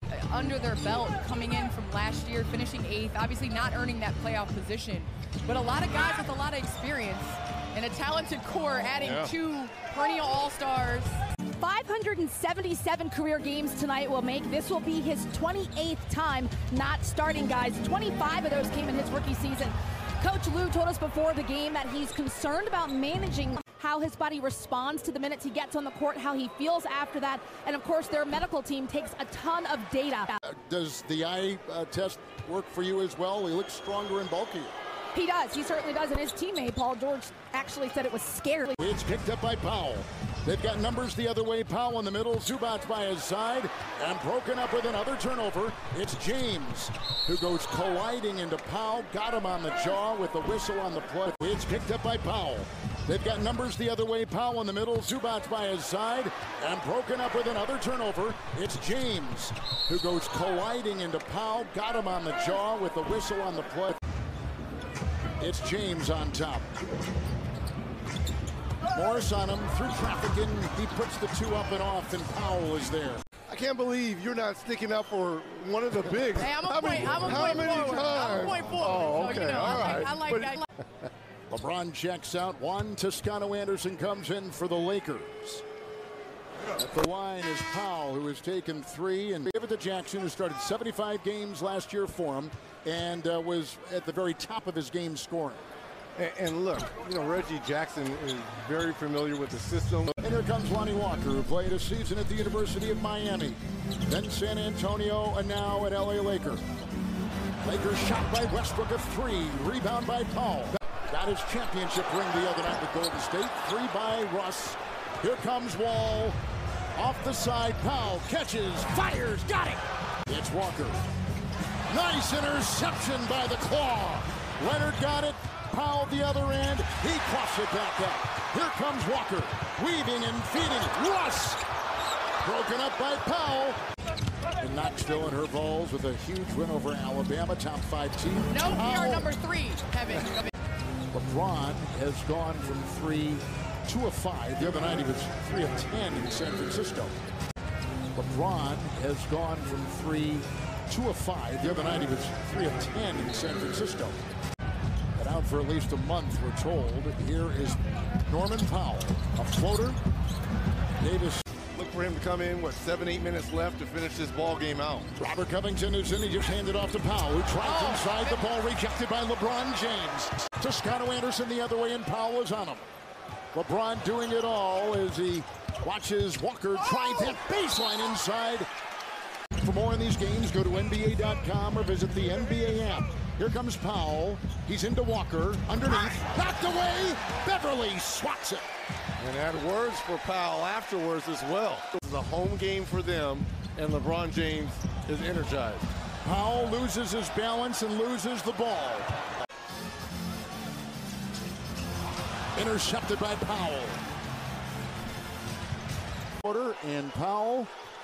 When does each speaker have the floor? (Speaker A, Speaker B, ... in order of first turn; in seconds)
Speaker A: 0.1-11.2, 76.4-80.7, 138.5-140.5, 167.6-168.4
Speaker B: 9.0-9.3, 73.5-80.6, 96.2-100.2, 161.7-165.1, 189.2-195.9
Speaker C: 11.6-30.3, 35.1-38.8
Speaker D: 30.4-34.8, 38.8-64.0, 65.4-66.7, 68.9-73.2, 81.5-85.7, 86.8-95.7, 100.2-106.6, 107.6-116.4, 117.0-121.0, 121.9-131.6, 132.4-133.8, 134.6-139.3, 141.1-147.2, 148.2-154.2, 155.2-160.0, 161.0-161.4, 165.2-172.9, 173.5-178.7, 179.6-188.7, 196.2-199.1, 202.6-204.0, 206.4-207.7